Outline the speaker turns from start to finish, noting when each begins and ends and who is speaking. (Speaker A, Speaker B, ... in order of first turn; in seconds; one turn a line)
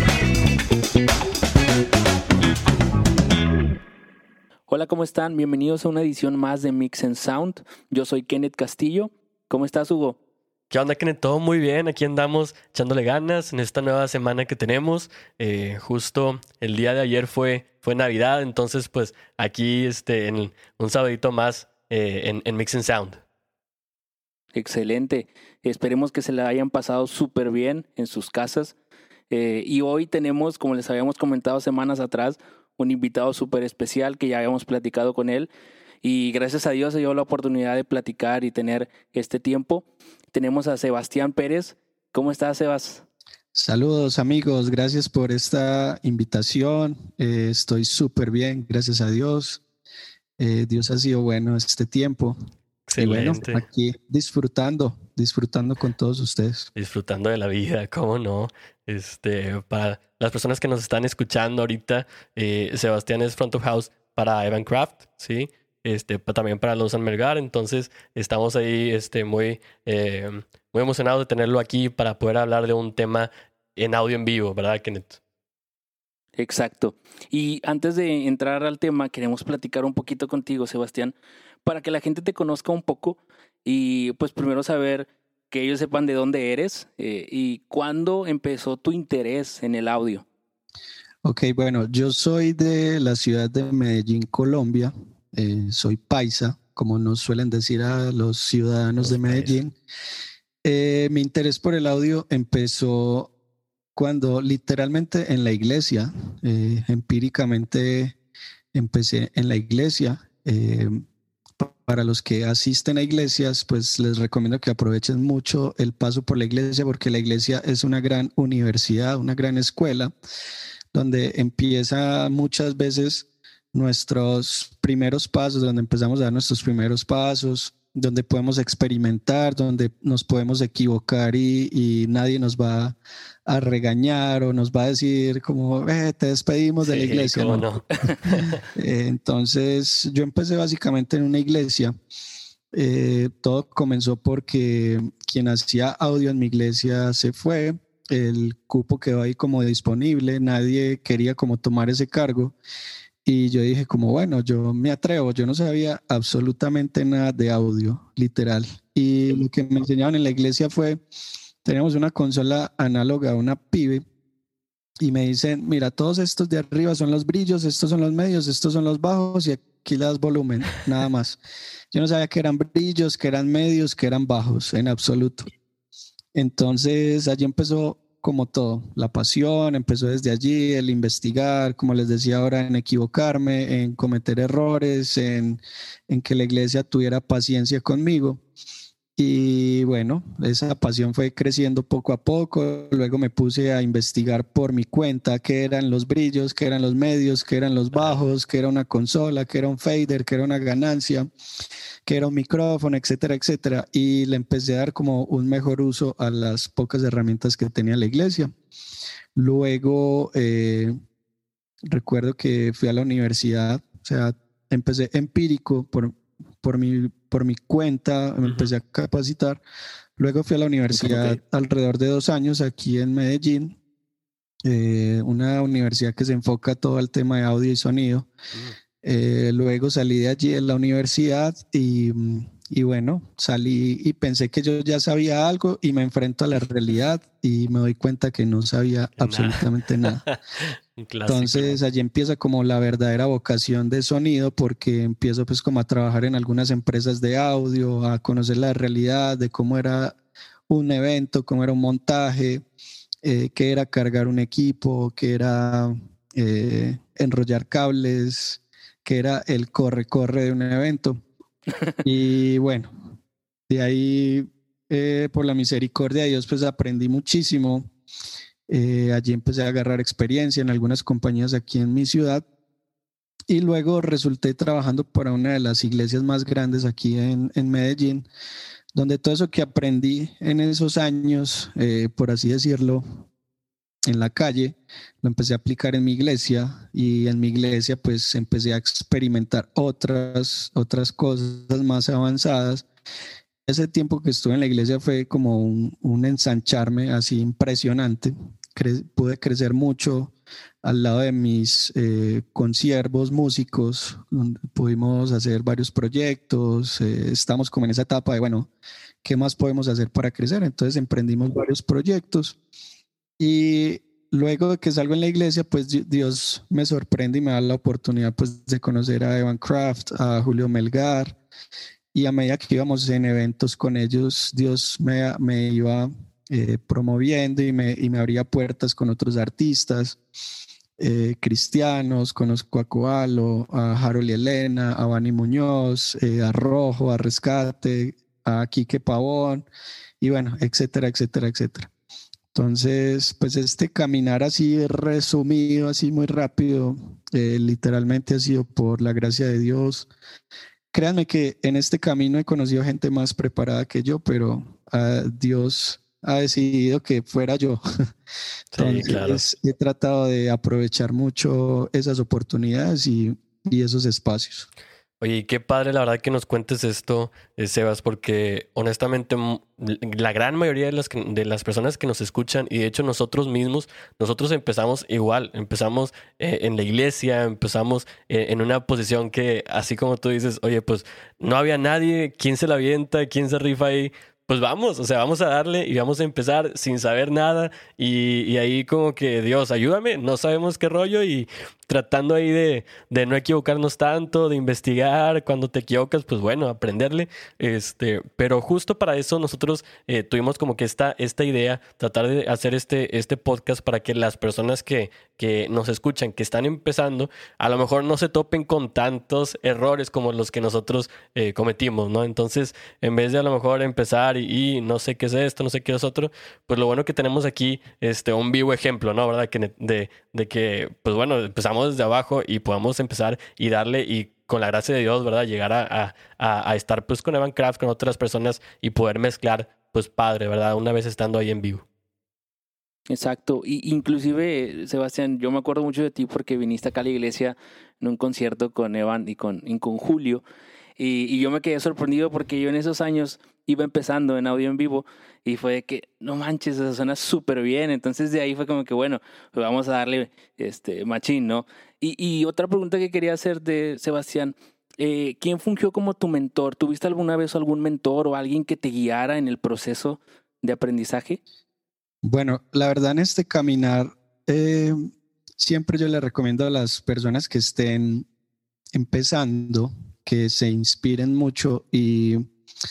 Speaker A: 4.7-10.2
Speaker B: 10.7-23.2
Speaker A: 24.5-28.8
Speaker A: 29.3-35.5
Speaker A: 36.0-43.0
Speaker C: 43.5-49.6
Speaker C: 50.4-52.4
Speaker B: 52.9-53.6
Speaker C: 53.0-56.7
Speaker B: 56.8-75.2
Speaker A: 76.4-90.2
Speaker C: 91.2-99.7
Speaker B: 99.0-99.5
Speaker C: 100.6-103.3
Speaker C: 104.0-108.2
Speaker C: 108.7-111.0
Speaker C: 111.6-120.1
Speaker C: 120.9-137.7
Speaker B: 136.8-138.6
Speaker C: 138.7-141.9
Speaker C: 142.7-152.5
Speaker C: 153.2-161.0
Speaker C: 161.6-164.0
Speaker C: 165.0-171.4
Speaker C: 171.9-175.5
Speaker C: 176.3-188.4
Speaker C: 189.2-201.3
Speaker B: 197.9-198.2
Speaker C: 202.1-208.5
Speaker C: 209.3-210.9
Speaker C: 211.8-219.6
Speaker B: 218.4-218.7
Speaker C: 220.2-223.8
Speaker B: 220.9-221.4
Speaker C: 224.6-228.3
Speaker C: 229.0-240.2
Speaker B: 239.2-241.8
Speaker C: 241.3-250.2
Speaker C: 250.7-252.6
Speaker C: 253.2-261.2
Speaker C: 262.0-263.1
Speaker C: 263.7-267.9
Speaker C: 268.7-272.4
Speaker C: 273.5-278.3
Speaker C: 278.9-283.2
Speaker C: 284.1-292.9
Speaker C: 293.6-308.7
Speaker C: 309.2-312.6
Speaker C: 313.4-321.4
Speaker C: 322.1-330.2
Speaker C: 331.0-339.6
Speaker C: 340.2-341.9
Speaker C: 342.5-350.1
Speaker C: 350.9-357.8
Speaker B: 358.7-359.4
Speaker C: 358.7-364.7
Speaker B: 365.2-431.8
Speaker A: 433.1-440.4
Speaker A: 441.0-461.4
Speaker C: 462.2-468.2
Speaker C: 468.9-472.4